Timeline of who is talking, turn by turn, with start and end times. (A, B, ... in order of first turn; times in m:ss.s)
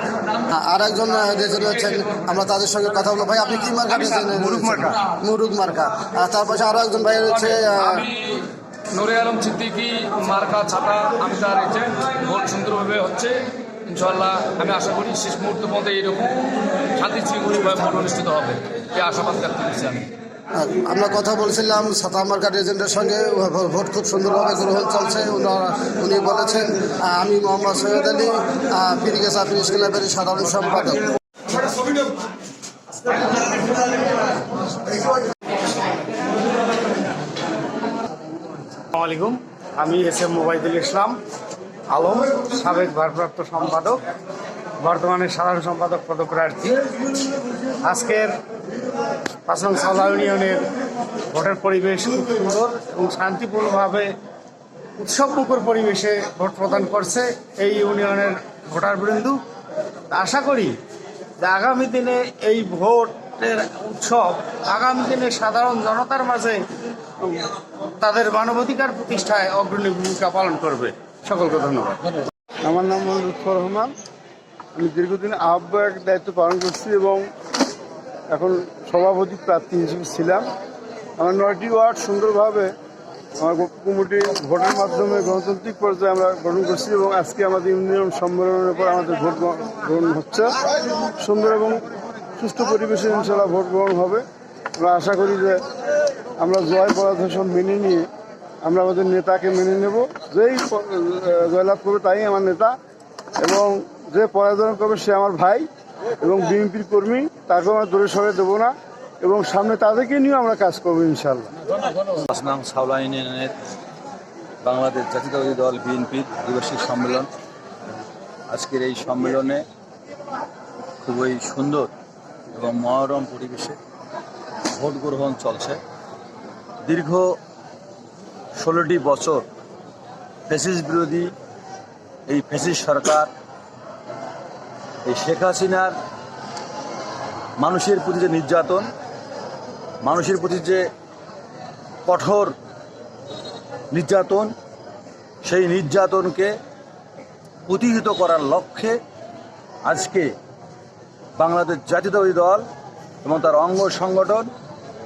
0:00.4-0:08.1 A
0:04.3-0:04.7 B
0:07.8-0:20.1 C
0:20.5-0:31.0 A
0:38.9-0:41.2 D
0:41.9-0:44.0 D
0:44.8-0:46.9 D
0:47.8-0:48.3 D
0:49.4-0:50.7 D
0:51.3-0:54.1 D
0:55.0-0:59.4 D
1:00.1-1:00.7 D
1:01.4-1:06.6 D
1:08.0-1:12.2 D
1:12.6-1:13.9 B
1:14.7-1:17.2 B
1:18.3-1:20.5 B
1:21.2-1:22.7 B
1:23.4-1:30.6 B
1:31.2-1:34.2 B
1:34.8-1:35.6 B
1:36.4-1:38.1 B
1:38.6-1:42.7 B
1:43.4-1:45.7 B
1:46.2-1:51.5 B
1:52.2-1:53.5 E
1:54.6-1:57.3 E
1:58.5-1:59.6 E
2:01.0-2:01.9 E
2:02.5-2:03.8 E
2:04.7-2:05.8 E
2:06.8-2:07.3 E
2:08.6-2:09.4 E
2:10.5-2:11.3 E
2:12.3-2:13.3 E
2:15.0-2:15.9 E
2:17.6-2:18.9 E
2:20.0-2:20.8 E
2:22.0-2:22.5 E
2:23.9-2:24.5 E
2:25.4-2:26.5 E
2:27.7-2:29.0 E
2:29.8-2:30.3 E
2:31.4-2:32.6 E
2:33.2-2:34.5 E